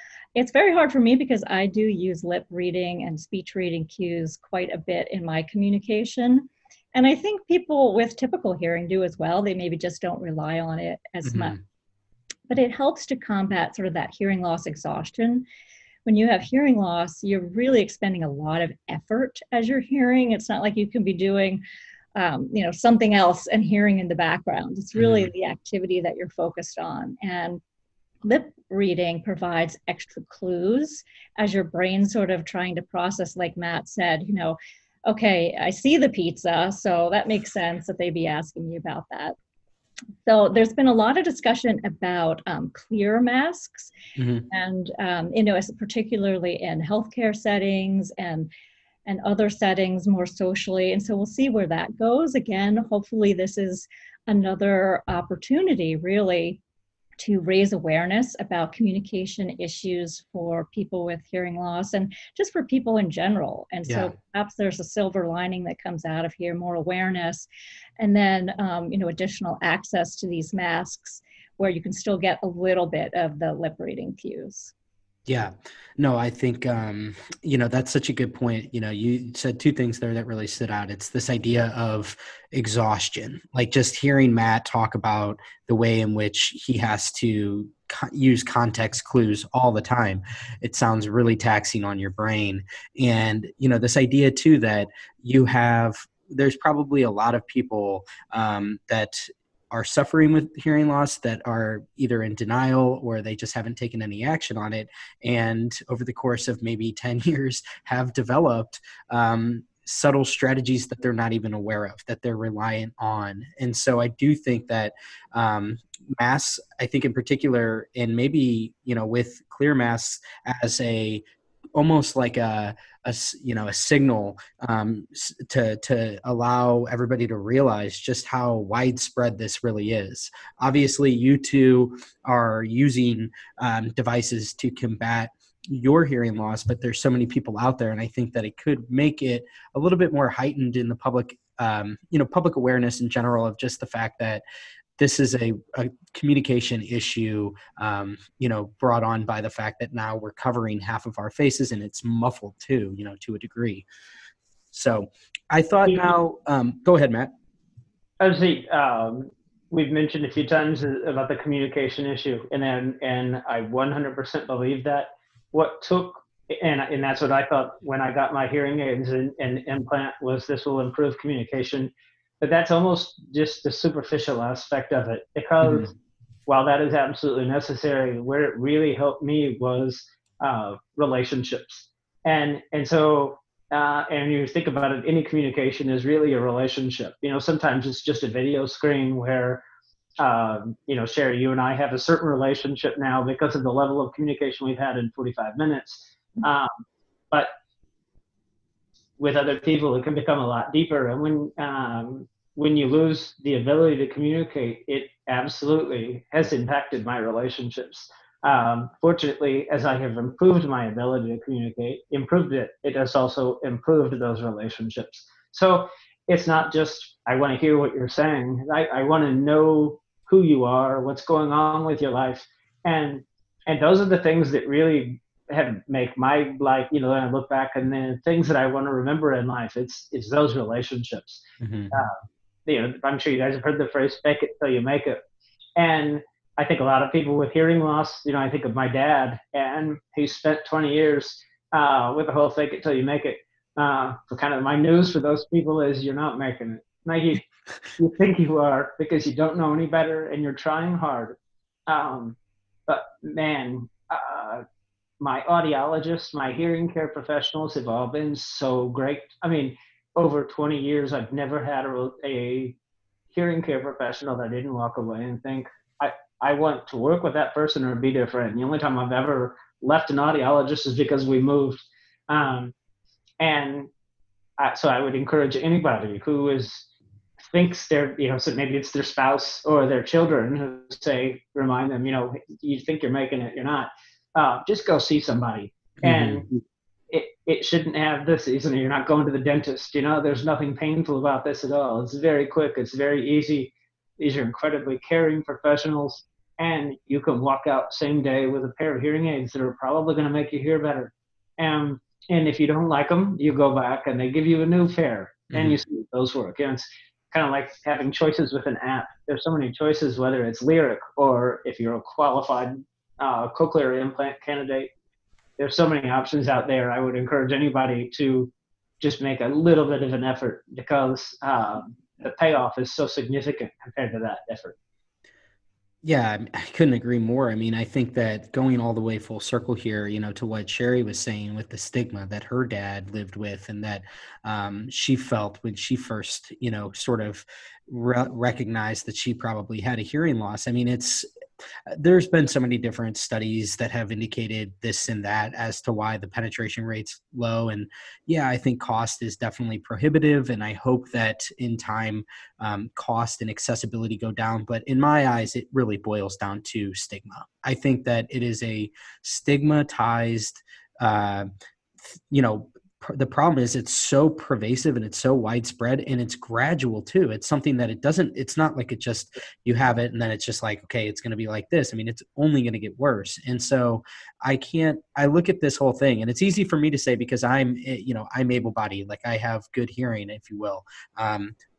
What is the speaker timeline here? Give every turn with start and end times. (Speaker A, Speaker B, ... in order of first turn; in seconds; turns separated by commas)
Speaker A: 0.3-11.6, Speaker B: 11.2-11.6, Speaker A: 12.5-15.4, Speaker A: 16.1-21.6, Speaker A: 22.1-27.6, Speaker B: 25.0-25.3, Speaker A: 28.2-39.4, Speaker A: 40.2-43.9, Speaker B: 44.1-44.5, Speaker A: 44.5-48.5, Speaker A: 49.0-56.6, Speaker A: 57.2-67.5, Speaker B: 63.9-64.1, Speaker A: 68.0-74.7, Speaker B: 75.2-121.2, Speaker B: 121.8-144.4, Speaker B: 145.0-153.8, Speaker B: 154.7-157.3, Speaker C: 158.2-175.9, Speaker B: 175.6-175.9, Speaker C: 176.5-189.6, Speaker C: 190.2-196.7, Speaker C: 199.2-232.1, Speaker B: 231.6-231.9, Speaker C: 232.7-235.2, Speaker C: 235.8-247.4, Speaker C: 248.0-251.3, Speaker C: 251.9-254.6, Speaker C: 255.2-262.8, Speaker C: 263.3-272.7, Speaker C: 273.4-273.9, Speaker C: 274.6-276.9, Speaker C: 277.5-286.5, Speaker B: 286.0-286.4, Speaker C: 287.1-314.9, Speaker B: 305.5-305.8, Speaker C: 315.6-324.8, Speaker B: 326.0-341.3, Speaker B: 341.9-361.5, Speaker B: 362.1-381.5